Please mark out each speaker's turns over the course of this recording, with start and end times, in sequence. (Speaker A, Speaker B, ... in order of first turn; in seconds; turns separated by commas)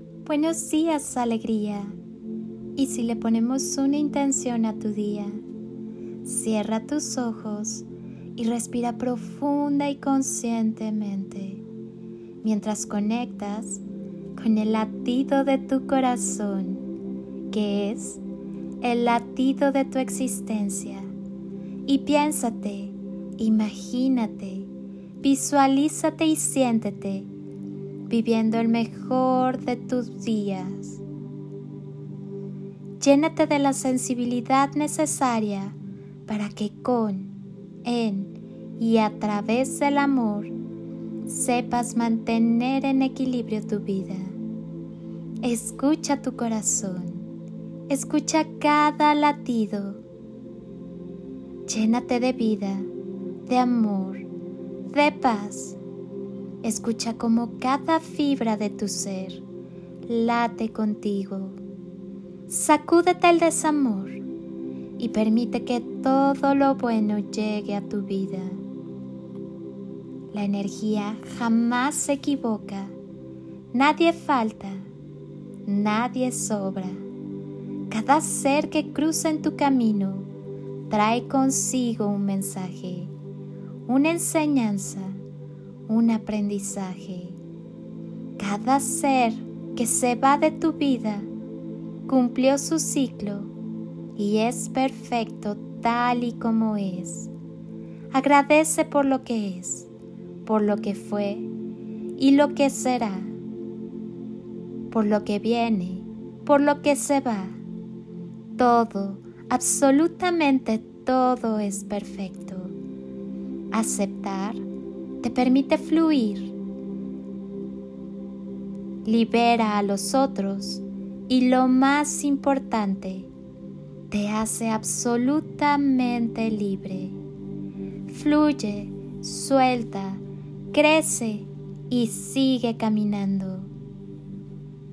Speaker A: 0.2-2.0, Speaker A: 2.8-5.4, Speaker A: 6.2-11.6, Speaker A: 12.4-13.8, Speaker A: 14.4-16.9, Speaker A: 17.5-18.2, Speaker A: 18.8-21.1, Speaker A: 21.9-24.7, Speaker A: 25.2-27.3, Speaker A: 28.1-31.0, Speaker A: 33.0-37.3, Speaker A: 37.9-40.5, Speaker A: 41.2-44.4, Speaker A: 45.4-47.3, Speaker A: 47.9-50.0, Speaker A: 51.7-52.9, Speaker A: 53.5-54.3, Speaker A: 54.9-55.8, Speaker A: 56.6-59.4, Speaker A: 60.1-61.6, Speaker A: 62.5-64.2, Speaker A: 65.0-68.6, Speaker A: 70.3-73.0, Speaker A: 73.7-74.9, Speaker A: 75.7-77.0, Speaker A: 77.9-80.3, Speaker A: 80.9-83.1, Speaker A: 83.9-85.2, Speaker A: 85.9-87.4, Speaker A: 88.4-91.3, Speaker A: 92.1-93.5, Speaker A: 94.2-97.3, Speaker A: 98.1-99.9, Speaker A: 100.5-101.5, Speaker A: 102.2-103.3, Speaker A: 104.9-107.6, Speaker A: 108.5-112.7, Speaker A: 113.7-114.6, Speaker A: 115.2-116.5, Speaker A: 119.0-123.3, Speaker A: 124.1-127.2, Speaker A: 128.1-133.7